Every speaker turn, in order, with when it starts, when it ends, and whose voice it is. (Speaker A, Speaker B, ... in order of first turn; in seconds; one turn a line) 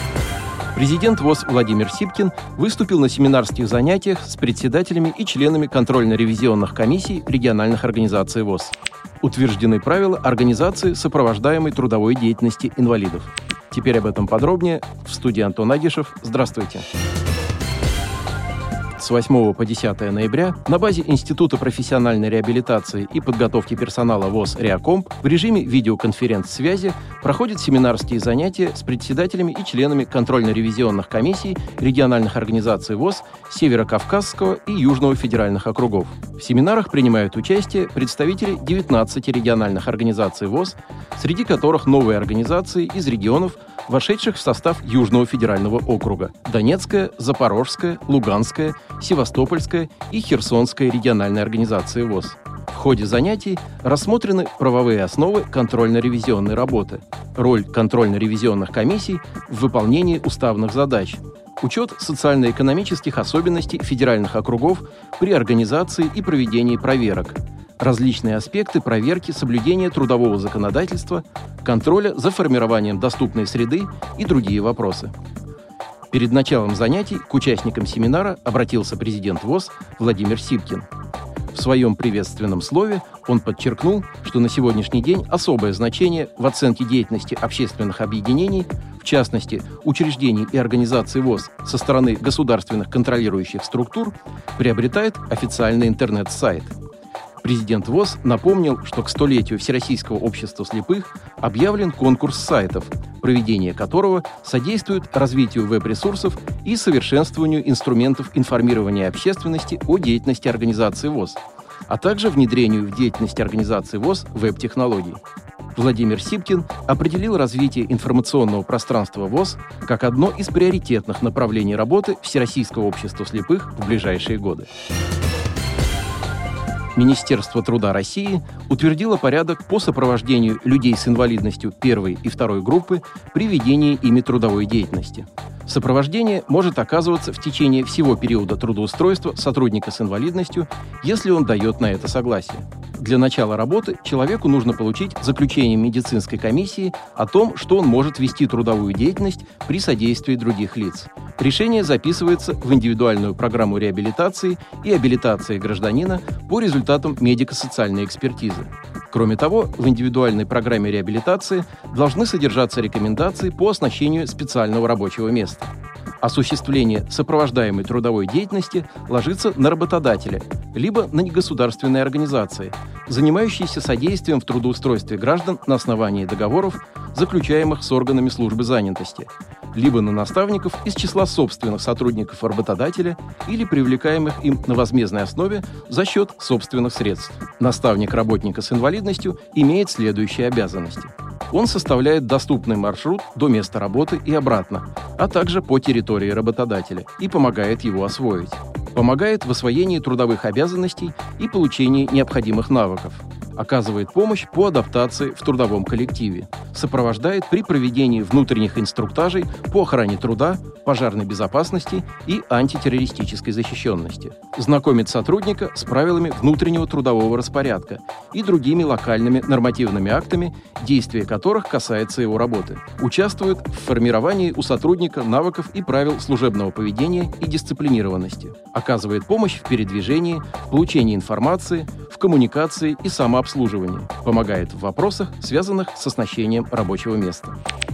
Speaker A: 0.7-16.8
Speaker A: 19.0-75.1
Speaker A: 76.1-80.8
Speaker A: 81.5-96.7
Speaker A: 97.4-115.2
Speaker A: 115.7-124.7
Speaker A: 126.9-237.6